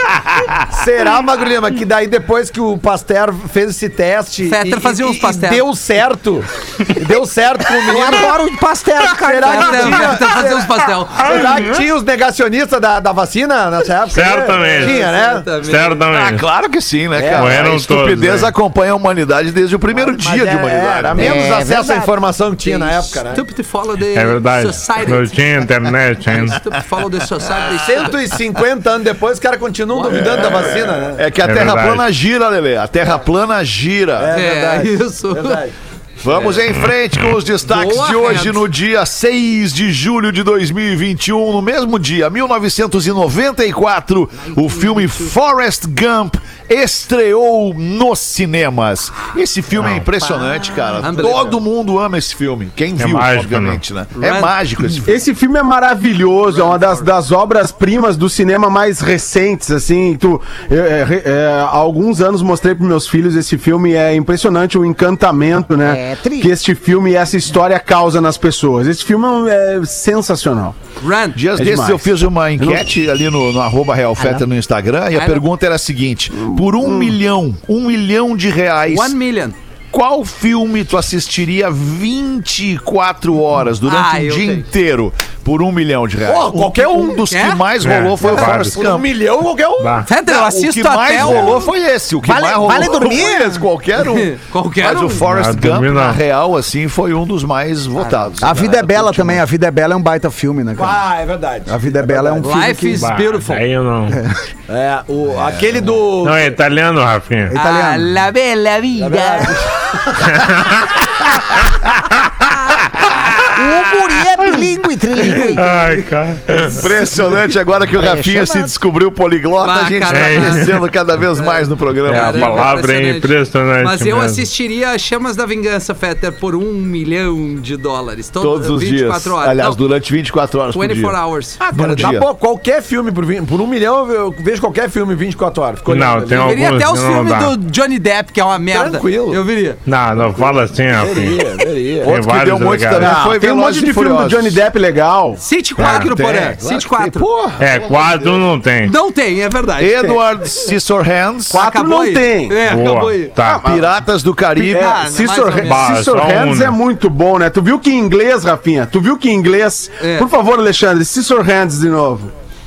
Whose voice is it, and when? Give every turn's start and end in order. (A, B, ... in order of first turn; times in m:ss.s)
0:00.7-0:08.4 A
0:04.5-0:05.6 B
0:07.8-0:10.2 C
0:09.1-0:15.6 A
0:09.4-0:11.4 B
0:14.1-0:15.0 D
0:14.6-0:16.0 B
0:15.6-0:16.4 D
0:16.1-0:21.4 E
0:17.2-0:17.6 A
0:17.3-0:18.5 D
0:19.9-0:23.4 A
0:21.2-0:22.2 C
0:22.6-0:25.4 B
0:24.1-0:26.6 D
0:26.3-0:28.2 B
0:27.6-0:31.2 A
0:29.9-0:30.4 B
0:30.1-0:34.3 E
0:31.4-0:32.1 D
0:34.2-0:35.8 A
0:34.3-0:35.6 B
0:36.2-0:55.2 E
0:37.7-0:38.7 B
0:50.3-0:51.1 C
0:51.0-0:51.6 B
0:53.0-0:53.8 D
0:54.2-0:54.5 B
0:55.0-1:10.8 F
1:05.8-1:06.5 C
1:11.0-1:11.4 B
1:11.4-1:19.2 E
1:11.6-1:12.9 F
1:14.2-1:14.4 C
1:15.1-1:15.4 B
1:16.4-1:17.1 F
1:18.9-1:19.6 B
1:19.9-1:29.1 E
1:23.8-1:24.7 B
1:26.2-1:27.3 A
1:27.3-1:27.6 B
1:27.8-1:28.8 D
1:28.2-1:30.1 A
1:29.8-1:30.1 D
1:30.0-1:31.6 B
1:30.2-1:39.4 E
1:32.2-1:33.7 C
1:34.0-1:35.2 B
1:35.2-1:36.2 D
1:38.0-1:38.3 B
1:38.4-1:41.0 C
1:40.8-1:42.8 A
1:41.7-1:43.0 C
1:42.4-1:43.6 B
1:42.9-1:44.2 D
1:44.7-1:46.5 A
1:46.2-1:47.5 D
1:47.5-1:48.1 C
1:47.5-1:49.6 B
1:49.0-1:49.9 A
1:50.3-1:50.8 D
1:53.0-1:53.3 E
1:53.5-1:55.9 C
1:55.2-1:56.8 D
1:56.5-2:02.7 E
1:58.0-1:58.8 C
1:59.6-2:00.7 B
2:00.1-2:00.8 D
2:01.4-2:09.8 B
2:02.0-2:04.5 D
2:08.4-2:12.3 E
2:10.7-2:11.6 B
2:11.6-2:16.6 A
2:15.9-2:17.6 D
2:16.4-2:19.8 B
2:18.7-2:19.4 A
2:19.9-2:21.4 D
2:21.0-2:22.1 A
2:22.0-2:24.6 E
2:22.0-2:23.2 D
2:23.0-2:25.4 F
2:25.4-2:27.3 B
2:25.8-2:28.4 E
2:25.8-2:26.2 D
2:27.6-2:29.0 D
2:28.8-2:30.1 B
2:29.8-2:31.6 E
2:30.0-2:30.3 F
2:31.5-2:32.7 F
2:31.5-2:33.4 B
2:32.6-2:33.6 D
2:33.4-2:33.9 F
2:33.6-2:35.0 E
2:34.6-2:36.0 B
2:34.6-2:42.3 F
2:35.6-2:36.8 D
2:40.0-2:40.3 B